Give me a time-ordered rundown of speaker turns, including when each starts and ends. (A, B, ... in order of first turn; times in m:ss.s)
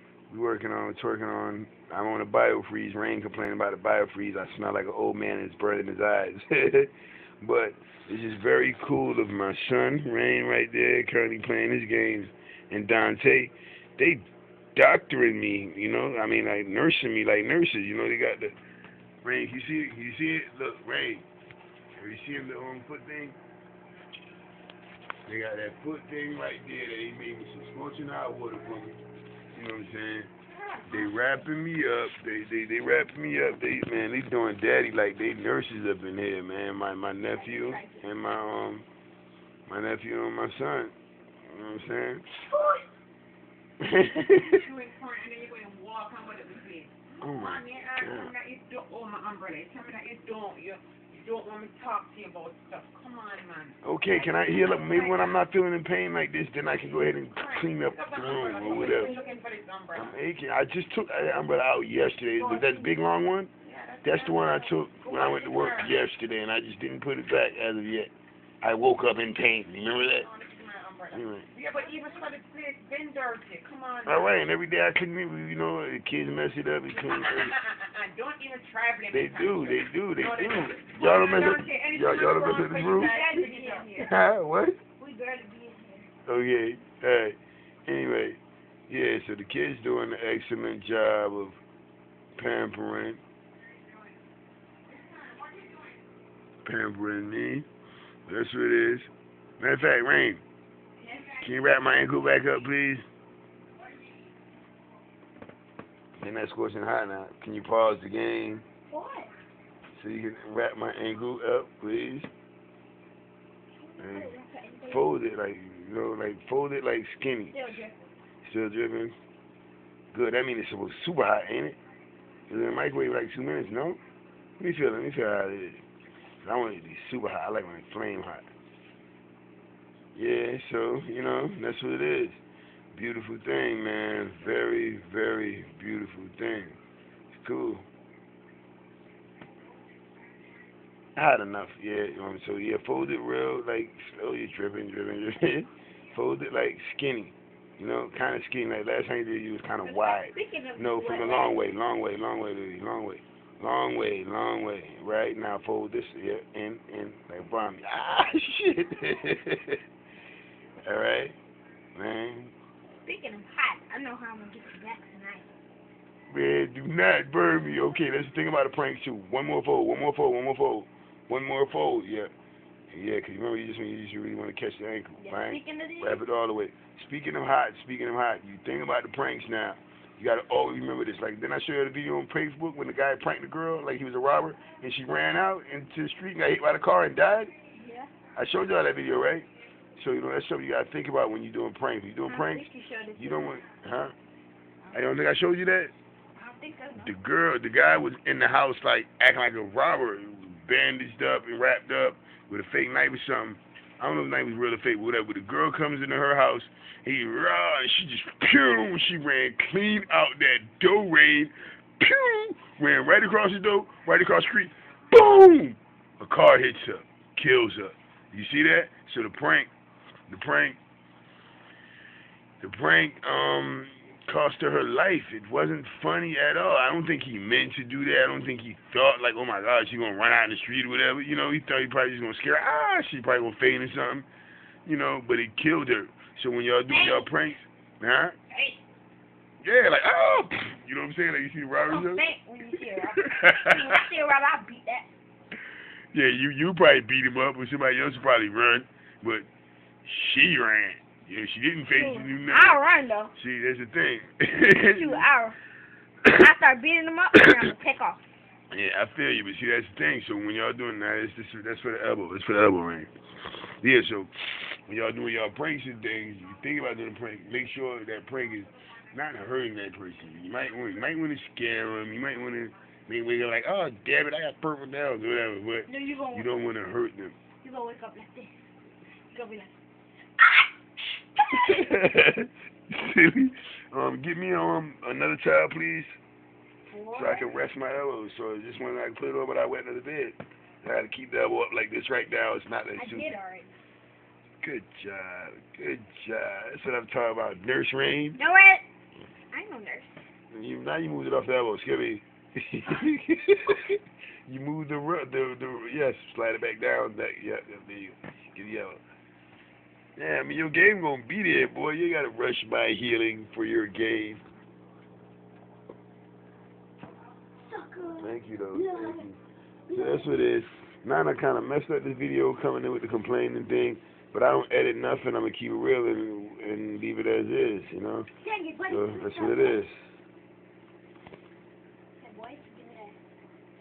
0:00.3-0:14.2 A
0:14.8-0:18.6 A
0:19.2-0:21.3 A
0:22.0-0:23.4 A
0:25.3-0:29.0 A
0:29.5-0:30.3 A
0:30.9-0:38.9 A
0:37.3-0:38.1 B
0:39.7-0:40.9 A
0:41.5-0:42.2 A
0:42.5-0:42.8 B
0:43.8-0:44.6 A
0:44.4-0:55.2 C
0:47.2-0:48.3 A
0:53.8-0:59.2 A
0:54.3-0:55.1 B
0:57.1-1:00.2 C
0:58.6-0:59.4 B
0:59.9-1:03.5 A
1:02.4-1:02.9 B
1:03.6-1:06.0 C
1:04.0-1:10.3 A
1:10.2-1:14.4 C
1:11.1-1:11.5 A
1:14.1-1:17.5 A
1:16.9-1:24.0 C
1:19.1-1:23.1 A
1:22.9-1:24.1 B
1:24.0-1:24.8 A
1:25.0-1:26.1 B
1:26.3-1:31.6 A
1:32.4-1:33.2 A
1:34.9-1:35.9 C
1:36.6-1:37.7 A
1:38.3-1:40.4 A
1:41.0-1:41.4 B
1:41.4-1:43.1 A
1:46.2-1:48.6 A
1:48.9-1:49.3 B
1:49.9-1:52.3 A
1:53.8-1:55.1 B
1:54.0-1:54.3 A
1:54.9-1:57.6 A
1:57.5-1:58.1 B
1:58.4-1:59.2 A
2:00.1-2:01.8 A
2:02.5-2:04.0 A
2:04.6-2:05.8 A
2:06.4-2:08.5 A
2:10.2-2:12.4 A
2:12.9-2:16.8 A
2:17.3-2:17.9 A
2:21.2-2:39.8 A
2:29.8-2:31.6 B
2:40.8-2:41.4 A
2:42.0-2:42.5 A
2:43.0-2:45.5 B
2:46.3-2:52.3 A
2:52.9-3:07.5 A
2:55.2-2:56.2 B
3:07.7-3:08.1 B
3:08.4-3:14.1 A
3:12.3-3:13.6 B
3:14.9-3:15.9 A
3:16.4-3:17.1 B
3:17.0-3:39.7 A
3:40.3-3:40.8 A
3:42.6-3:54.3 A
3:54.9-3:58.4 A
3:56.9-3:57.4 B
3:58.5-3:58.8 B
3:59.6-4:02.3 A
4:01.9-4:05.1 B
4:03.1-4:04.0 A
4:06.1-4:09.5 A
4:10.0-4:12.8 A
4:11.9-4:13.4 B
4:13.4-4:15.3 A
4:14.8-4:15.6 B
4:16.4-4:18.2 B
4:18.7-4:23.1 A
4:23.8-4:37.4 A
4:35.9-4:36.5 B
4:37.6-4:38.6 B
4:39.3-4:39.7 B
4:40.4-4:40.7 B
4:41.5-4:46.2 A
4:46.9-4:47.6 B
4:47.1-4:53.4 A
4:53.0-4:53.7 B
4:54.6-4:58.4 A
4:58.4-4:58.8 B
4:59.5-5:00.2 B
5:00.5-5:09.0 A
5:10.2-5:14.4 A
5:17.6-5:19.3 B
5:18.2-5:19.4 A
5:19.9-5:20.3 B
5:19.9-5:28.3 A
5:28.4-5:29.8 B
5:28.9-5:30.1 A
5:32.2-5:33.2 B